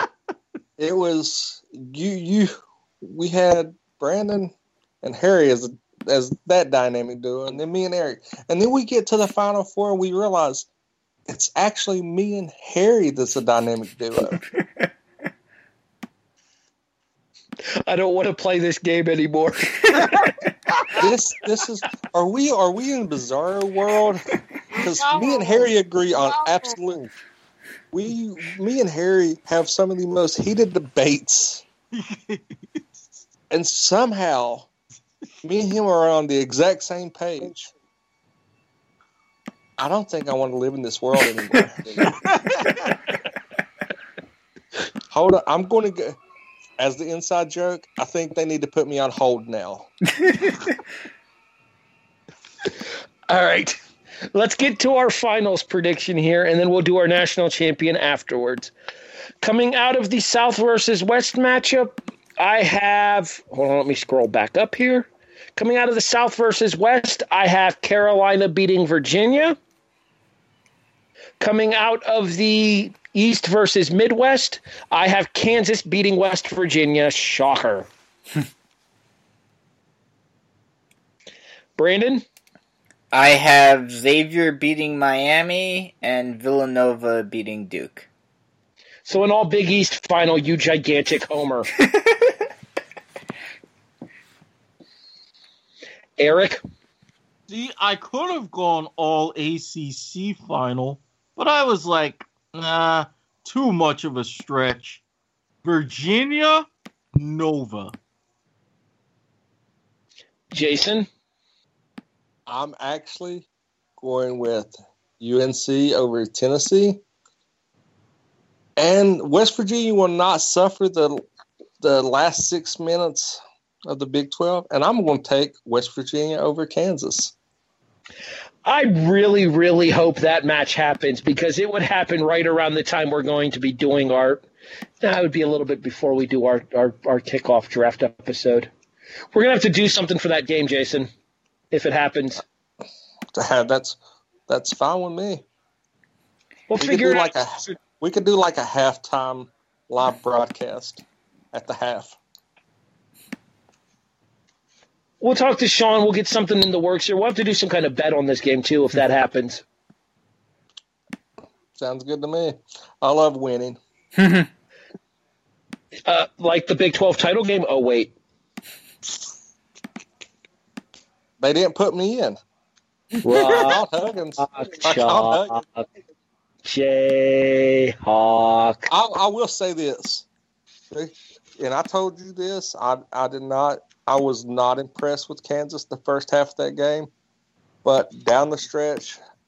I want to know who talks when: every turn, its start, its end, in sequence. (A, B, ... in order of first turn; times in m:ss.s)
0:00.8-0:10.7 A
0:11.3-0:14.4 A
0:17.9-0:20.3 B
0:20.0-0:21.0 C
0:21.0-0:27.1 A
0:24.7-0:26.8 C
0:27.9-0:31.6 A
0:31.9-0:32.8 C
0:33.5-0:34.7 A
0:35.4-0:37.7 A
0:39.8-0:42.1 A
0:42.0-0:42.9 C
0:45.1-0:46.2 A
0:46.8-0:49.9 A
0:53.3-0:53.8 B
0:54.3-0:58.7 B
0:59.4-1:09.6 B
1:11.4-1:17.9 B
1:21.8-1:22.2 B
1:23.1-1:28.1 D
1:29.1-1:31.7 B
1:36.2-1:36.6 B
1:37.5-1:45.0 C
1:45.6-1:47.9 C
1:50.5-1:51.1 B
1:52.5-1:53.5 A
1:54.0-1:57.0 A
1:58.8-2:01.2 A
2:01.8-2:07.3 A
2:08.6-2:14.4 B
2:15.0-2:18.7 B
2:19.3-2:21.1 B
2:21.7-2:22.4 B
2:23.3-2:25.4 A
2:26.7-2:27.8 B
2:26.8-2:32.2 A
2:35.2-2:39.6 B
2:41.8-2:43.8 A
2:44.2-2:44.5 D
2:46.1-2:48.1 B
2:51.4-2:52.4 A
2:53.2-2:53.8 B
2:53.3-2:55.6 A
2:54.4-2:55.9 B
2:56.6-2:58.9 B
2:58.9-3:00.3 A
3:00.9-3:07.1 A
3:07.8-3:09.2 A